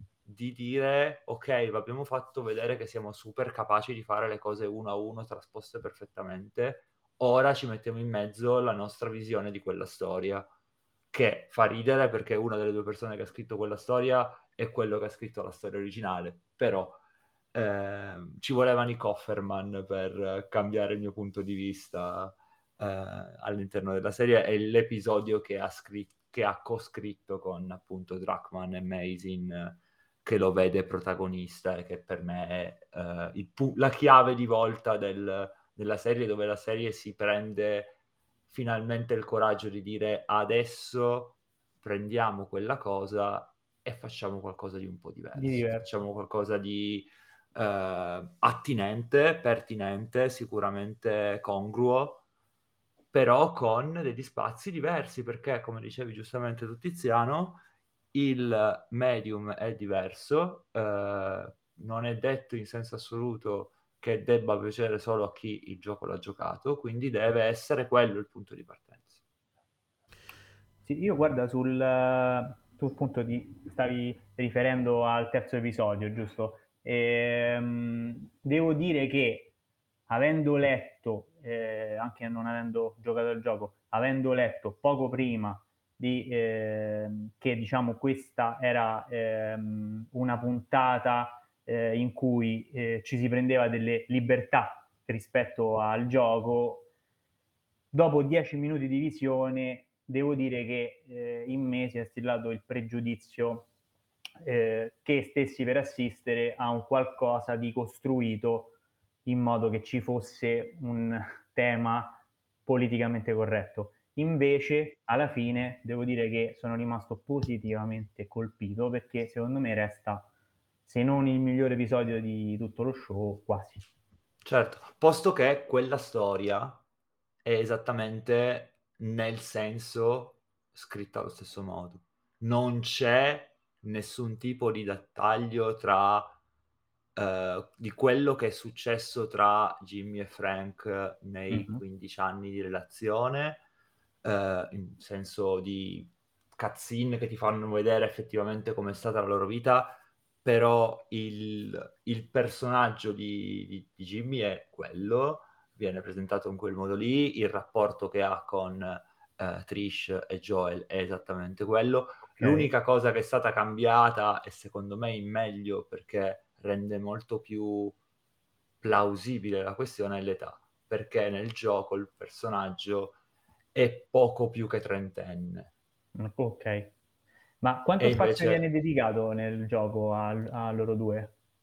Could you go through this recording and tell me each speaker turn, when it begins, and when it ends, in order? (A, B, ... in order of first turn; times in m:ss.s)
0:00.2-0:10.4 A
0:11.1-0:17.0 A
0:17.5-0:37.9 A
0:38.5-0:52.2 A
0:45.4-0:45.8 B
0:53.1-0:57.6 A
0:58.1-1:09.2 A
1:10.8-1:19.5 B
1:20.1-1:36.9 B
1:37.9-1:43.7 B
1:44.4-1:48.7 B
1:49.2-2:00.3 B
2:00.9-2:03.8 B
2:04.4-2:06.8 A
2:07.4-2:16.4 A
2:17.1-2:23.6 A
2:21.5-2:21.8 B
2:24.2-2:48.0 A
2:42.4-2:42.7 B
2:48.8-2:53.2 A
2:53.7-2:55.7 A
2:56.2-2:56.9 B
2:57.6-3:01.3 B
2:58.0-2:58.6 A